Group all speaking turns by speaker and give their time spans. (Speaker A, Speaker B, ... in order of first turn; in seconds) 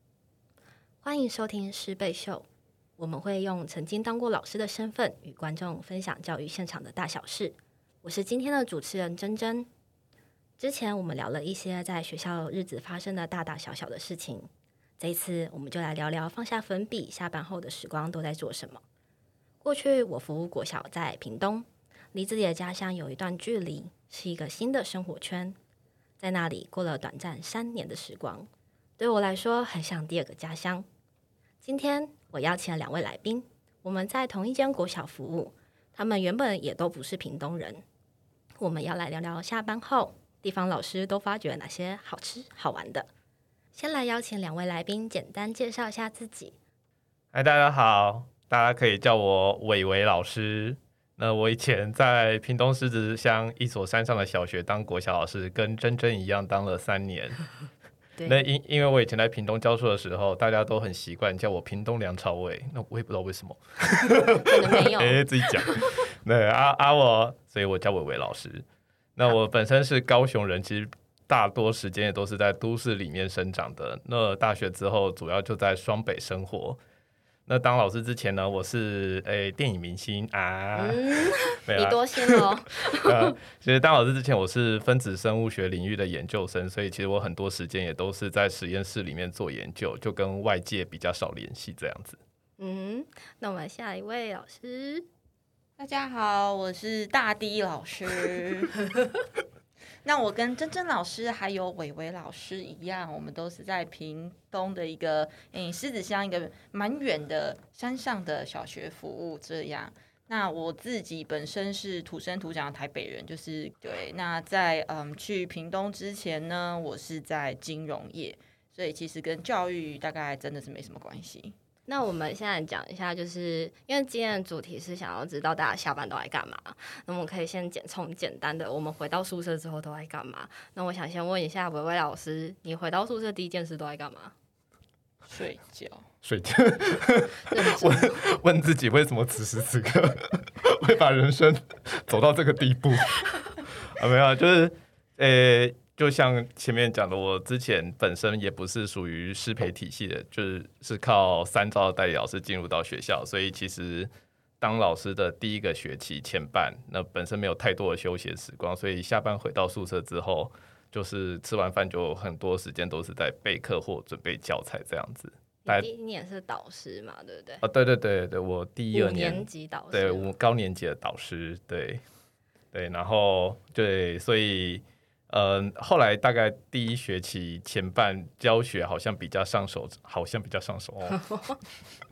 Speaker A: 1.0-2.5, 3.0-9.7, 10.6-18.8, 19.6-25.6, 26.2-30.9, 31.6-37.8, 38.6-43.1, 43.7-46.5, 64.3-65.9, 80.8-83.3, 92.6-95.1, 121.9-134.3, 137.5-138.2, 165.7-167.6, 168.9-170.3, 181.1-181.6
Speaker B: 47.3-57.4, 58.2-68.7, 69.2-76.8, 77.5-92.2, 136.2-165.9, 167.6-172.0, 172.7-181.2
Speaker C: 95.8-98.8, 100.0-121.5, 135.3-136.1